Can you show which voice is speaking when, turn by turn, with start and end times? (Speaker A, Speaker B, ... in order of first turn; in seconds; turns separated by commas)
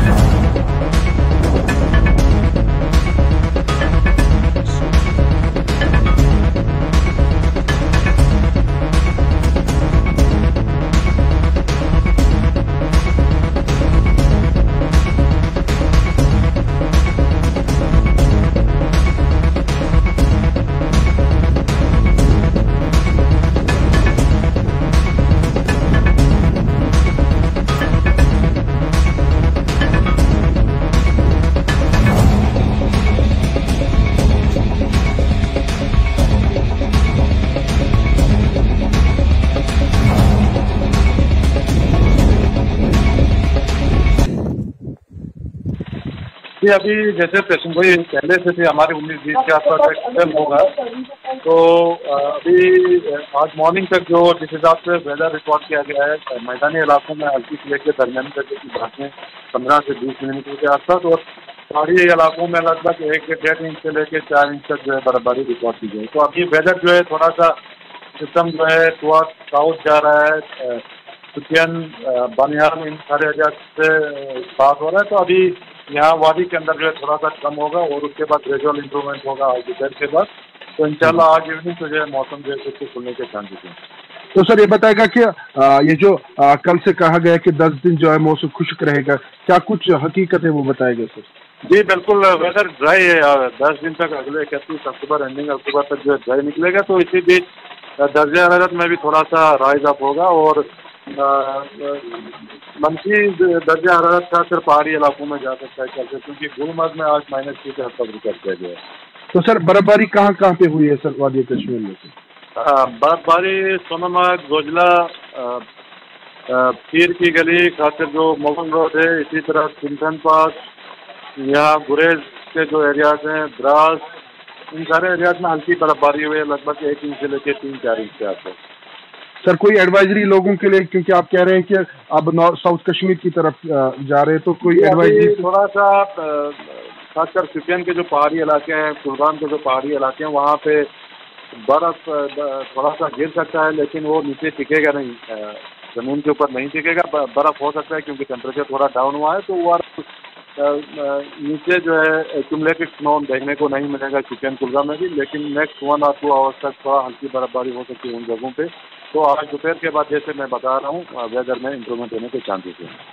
Speaker A: 46.6-50.8, Speaker A: 51.4-67.6, Speaker A: 68.2-70.8, Speaker A: 71.3-83.8, Speaker B: 84.3-91.3, Speaker A: 91.7-97.5, Speaker A: 98.0-108.8, Speaker B: 109.3-112.1, Speaker A: 112.5-115.6, Speaker A: 116.5-120.6, Speaker A: 121.4-124.0, Speaker A: 124.7-128.6, Speaker B: 129.4-135.4, Speaker A: 134.7-140.9, Speaker A: 141.6-162.9